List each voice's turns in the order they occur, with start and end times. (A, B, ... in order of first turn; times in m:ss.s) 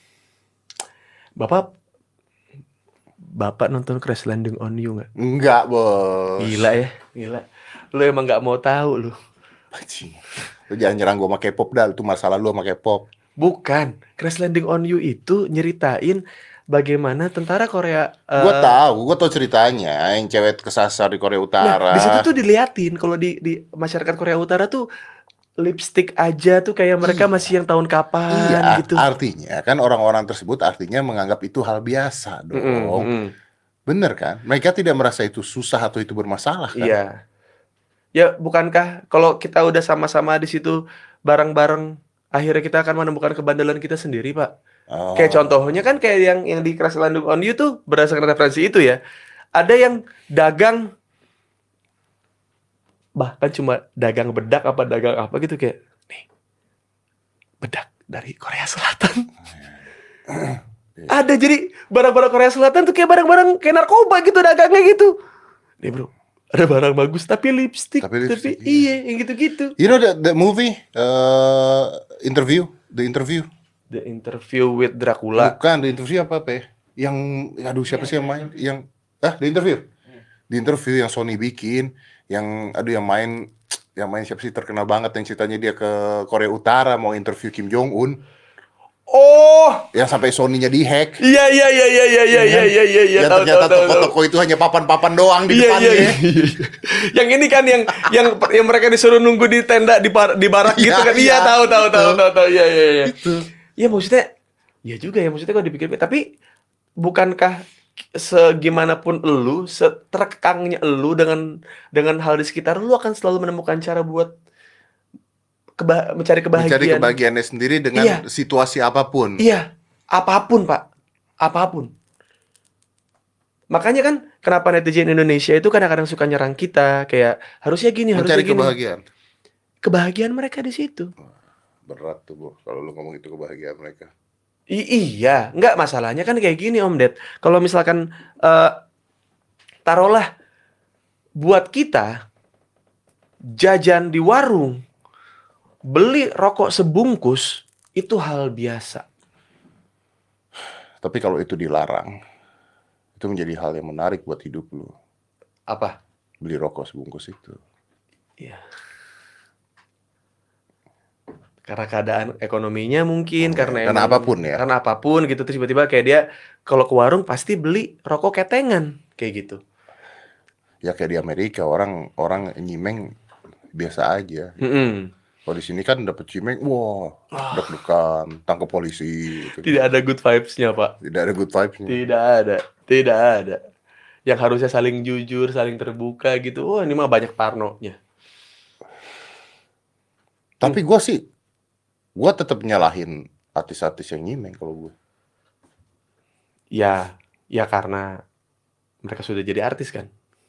0:01.4-0:01.7 A
0:03.4-0:05.1 A
0:05.2-0:06.7 B
0:06.4-0:09.2 A
0:09.7-0:13.0 B
0:13.4-0:18.8 A
0:18.4-0:22.3 B
0:21.6-0:24.8 A
0:25.6-0:29.0 A
0:27.0-0:27.5 B
0:28.3-0:33.1 B
0:32.5-0:33.3 A
0:33.9-0:37.0 B
0:36.8-0:37.1 A
0:38.2-0:44.5 A
0:44.9-0:45.8 B
0:45.2-0:49.0 A
0:49.6-0:50.9 A
0:53.2-0:56.2 A
0:57.6-0:59.3 A
1:00.3-1:01.1 B
1:01.1-1:05.2 A
1:05.8-1:09.8 A
1:08.0-1:08.9 B
1:09.8-1:13.5 B
1:13.9-1:15.6 A
1:15.4-1:19.9 B
1:20.5-1:28.2 B
1:29.1-1:29.9 A
1:29.9-1:31.2 B
1:31.2-1:34.1 A
1:32.3-1:36.2 B
1:35.5-1:43.1 A
1:40.6-1:42.2 B
1:43.0-1:43.5 B
1:43.8-1:44.3 A
1:44.9-1:46.2 A
1:47.0-1:47.6 A
1:48.2-1:54.3 A
1:55.8-1:57.1 A
1:56.6-1:59.4 B
1:58.0-1:58.2 A
1:59.4-2:00.8 A
2:01.4-2:01.9 A
2:03.7-2:08.7 A
2:08.2-2:09.0 B
2:09.8-2:11.1 A
2:11.9-2:14.1 B
2:14.7-2:18.8 A
2:19.9-2:20.3 A
2:21.4-2:22.1 A
2:23.6-2:24.8 A
2:25.9-2:29.0 A
2:31.0-2:32.2 B
2:33.2-2:34.9 B
2:35.7-2:36.0 A
2:36.4-2:37.6 B
2:41.7-2:49.6 A
2:43.4-2:44.6 B
2:50.8-2:53.1 B
2:53.7-2:54.6 B
2:54.6-2:55.1 A
2:55.5-2:59.8 B
2:57.3-2:57.7 A
2:59.6-3:01.0 A
3:01.0-3:02.0 B
3:01.9-3:03.6 A
3:04.3-3:08.0 A
3:10.6-3:11.2 B
3:12.2-3:14.9 B
3:16.8-3:18.1 A
3:19.0-3:20.1 A